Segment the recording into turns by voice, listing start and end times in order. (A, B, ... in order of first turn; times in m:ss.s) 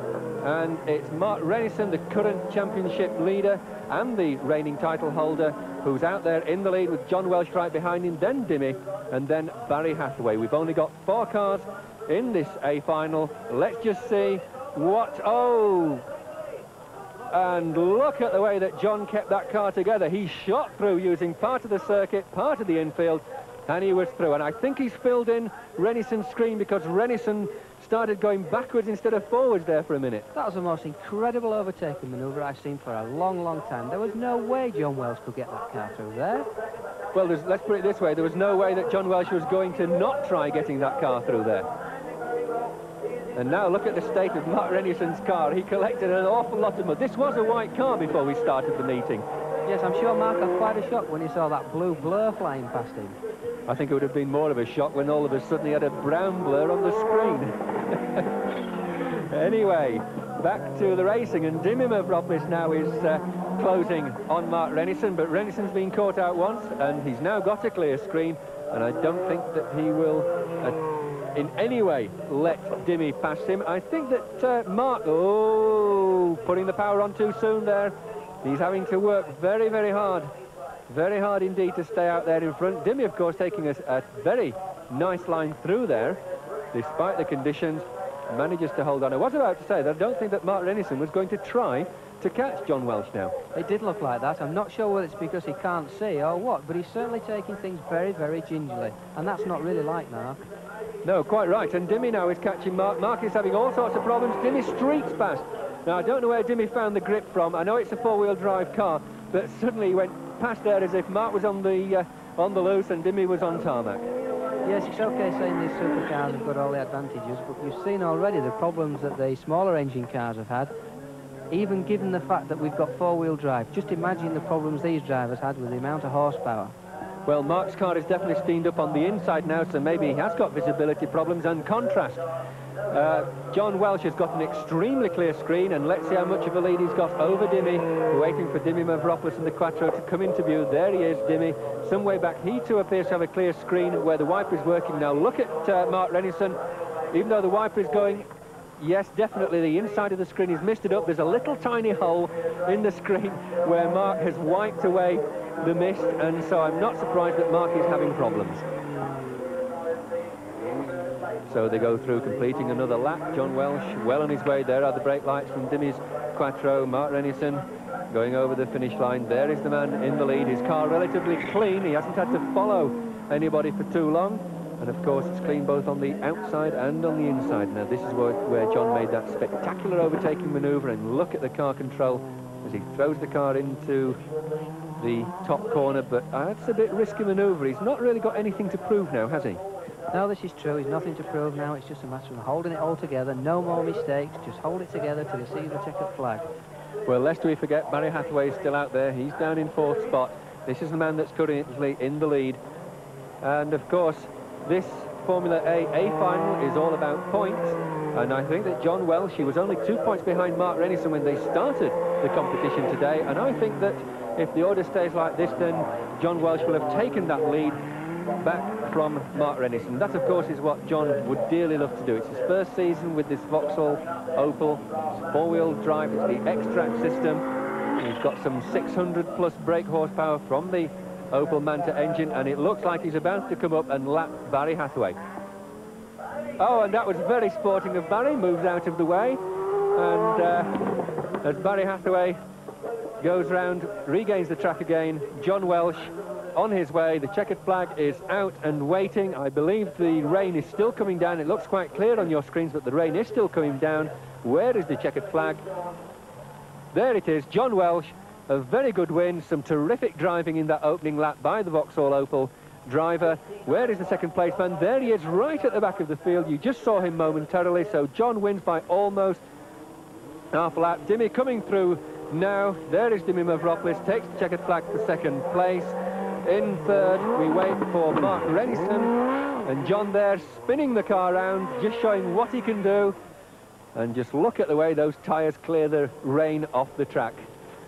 0:00.4-0:16.0 A
0:17.3-0:30.3 A
0:30.3-0:36.5 B
0:37.1-0:41.7 A
0:43.4-0:49.2 A
0:49.6-0:53.2 B
0:53.7-0:58.3 A
0:59.0-1:10.8 A
1:11.3-1:20.3 A
1:20.9-1:26.2 A
1:26.7-1:33.3 A
1:33.5-1:40.5 B
1:41.0-1:54.0 A
1:54.6-2:00.7 B
2:01.5-2:06.7 B
2:07.2-2:12.2 A
2:12.9-2:26.6 A
2:27.1-2:28.2 A
2:28.8-2:38.6 A
2:41.5-3:04.2 A
3:05.0-3:09.6 A
3:10.1-3:16.5 B
3:17.1-3:22.6 A
3:23.4-3:37.8 A
3:38.4-3:47.4 A
3:48.0-3:55.2 A
3:56.6-3:59.4 A
3:59.9-4:00.8 A
4:01.4-4:02.4 A
4:03.2-4:15.6 A
4:16.9-4:29.4 A
4:30.5-4:39.1 A
4:39.6-4:43.1 A
4:43.9-4:47.4 A